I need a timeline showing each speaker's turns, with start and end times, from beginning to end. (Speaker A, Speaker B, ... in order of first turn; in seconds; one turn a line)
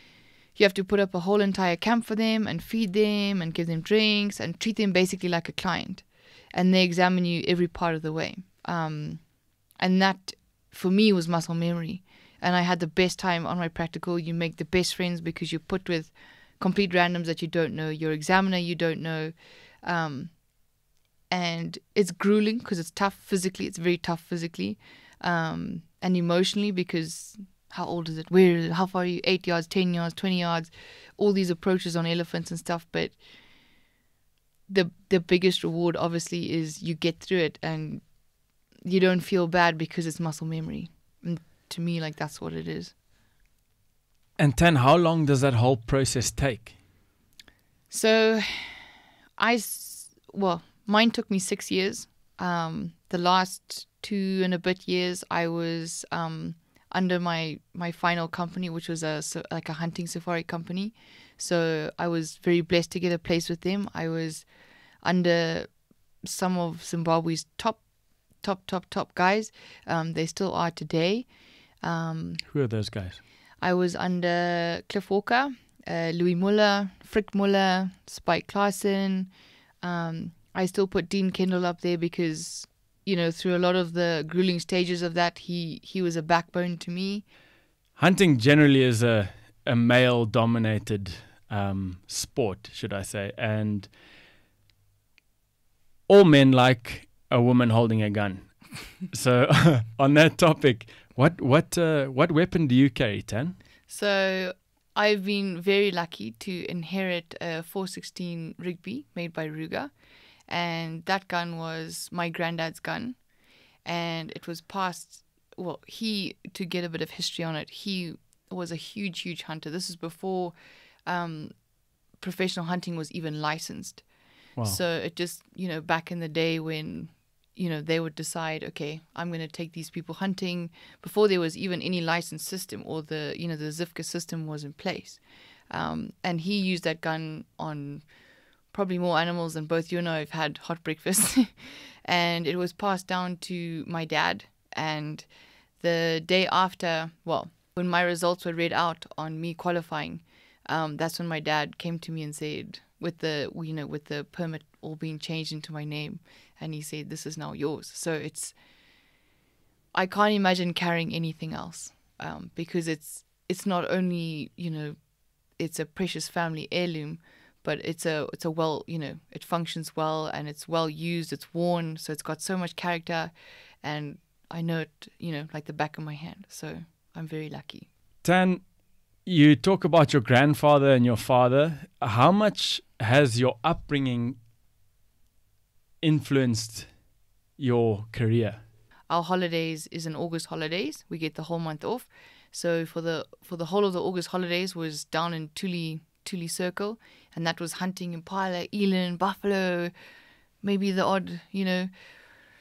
Speaker A: 0.5-20.4
Speaker A: 21.3-33.2
Speaker A: 34.7-38.2
Speaker A: 38.8-42.9
Speaker B: 44.4-46.7
Speaker A: 47.9-48.8
Speaker A: 49.4-64.5
Speaker A: 65.0-71.3
Speaker A: 71.8-72.4
Speaker B: 72.5-73.2
Speaker A: 73.6-87.2
Speaker B: 88.0-93.9
Speaker B: 96.1-103.6
Speaker A: 103.9-109.9
Speaker A: 110.5-113.2
Speaker A: 113.8-120.5
Speaker A: 121.0-121.6
Speaker A: 122.2-124.1
Speaker A: 124.6-145.3
Speaker A: 145.8-158.6
Speaker A: 159.9-165.0
Speaker A: 165.5-173.3
Speaker A: 173.8-177.9
Speaker B: 178.2-178.7
Speaker B: 179.2-184.4
Speaker B: 186.0-186.9
Speaker B: 187.6-188.6
Speaker A: 189.1-199.9
Speaker A: 200.6-201.9